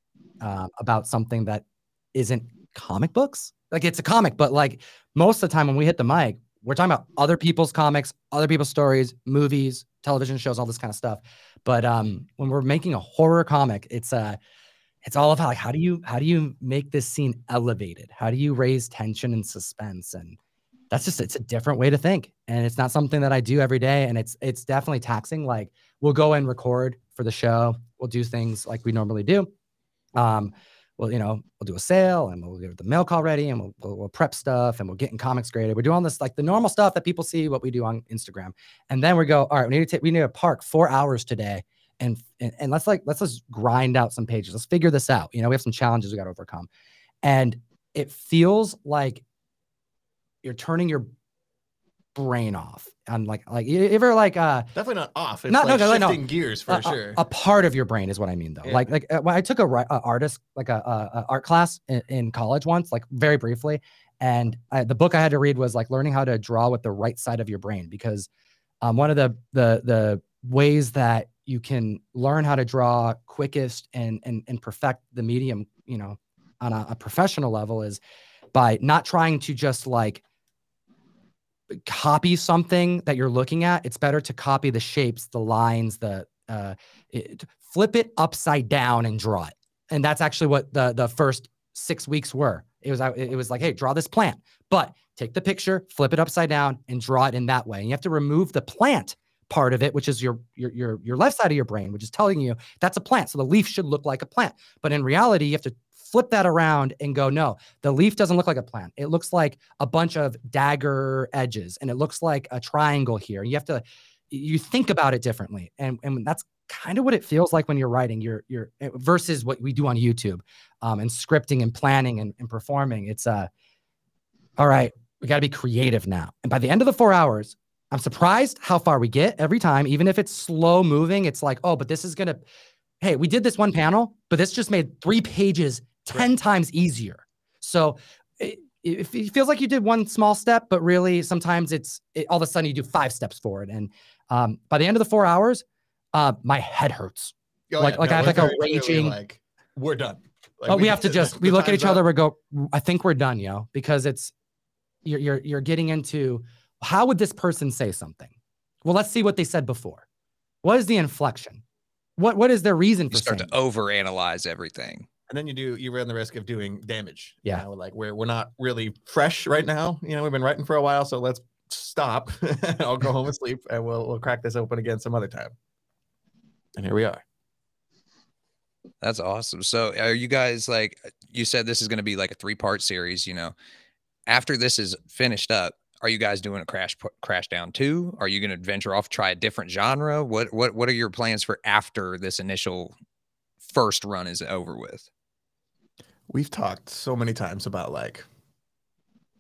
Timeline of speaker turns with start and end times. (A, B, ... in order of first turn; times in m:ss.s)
0:00.4-0:14.4 A
0:15.0-0:20.4 A
0:20.9-0:29.5 A
0:30.2-0:46.7 A
0:47.2-0:49.2 A
0:50.4-0:51.1 A
0:52.2-0:54.7 A
0:54.8-0:57.2 B
0:55.5-1:08.3 A
0:58.6-0:58.9 B
1:08.8-1:18.0 A
1:18.5-1:20.2 A
1:21.7-2:03.5 A
2:04.6-2:12.4 A
2:13.0-2:29.2 A
2:27.7-2:32.0 B
2:30.7-2:34.3 A
2:35.0-2:38.3 A
2:38.8-2:40.0 A
2:40.6-2:41.6 A
2:42.2-2:43.5 A
2:43.1-2:45.1 C
2:45.3-2:55.5 B
2:56.8-2:57.2 B
2:59.0-3:03.5 C
3:04.3-3:12.9 C
3:13.6-3:15.1 C
3:16.3-3:18.3 B